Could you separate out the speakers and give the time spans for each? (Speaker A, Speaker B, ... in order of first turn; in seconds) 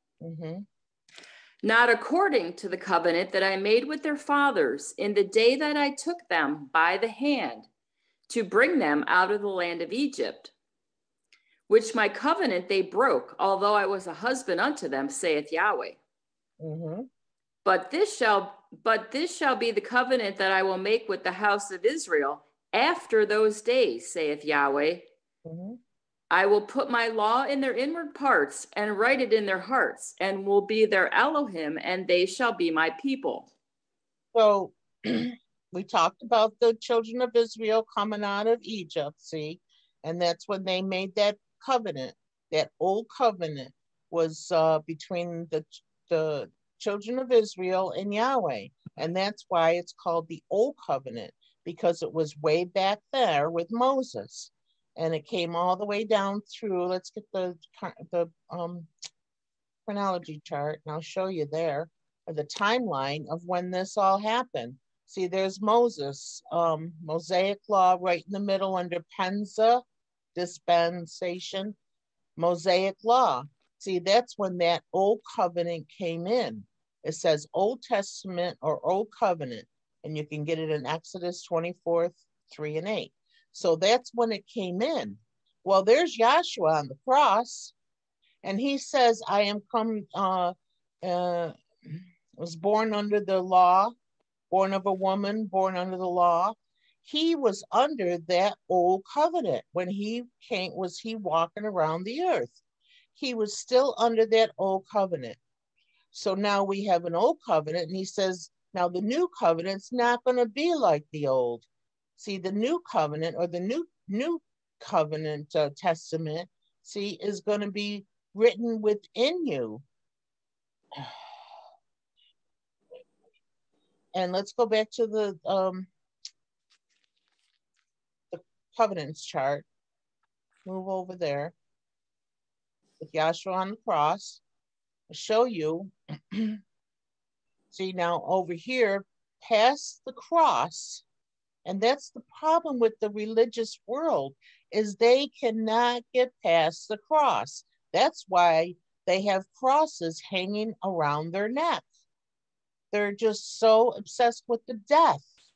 Speaker A: 0.2-0.7, 16.6-17.1, 25.4-25.8, 34.3-58.9, 59.9-69.8, 70.3-71.8, 72.4-87.7, 88.4-93.9, 94.5-102.6, 103.2-105.4, 106.1-119.8, 124.1-125.9, 128.3-129.7, 130.7-131.5, 133.0-134.4, 135.1-136.6, 137.7-141.0, 141.7-151.8, 152.9-155.2
Speaker B: 1.6-7.7, 8.3-10.5, 11.7-16.0, 17.6-25.1, 26.3-33.5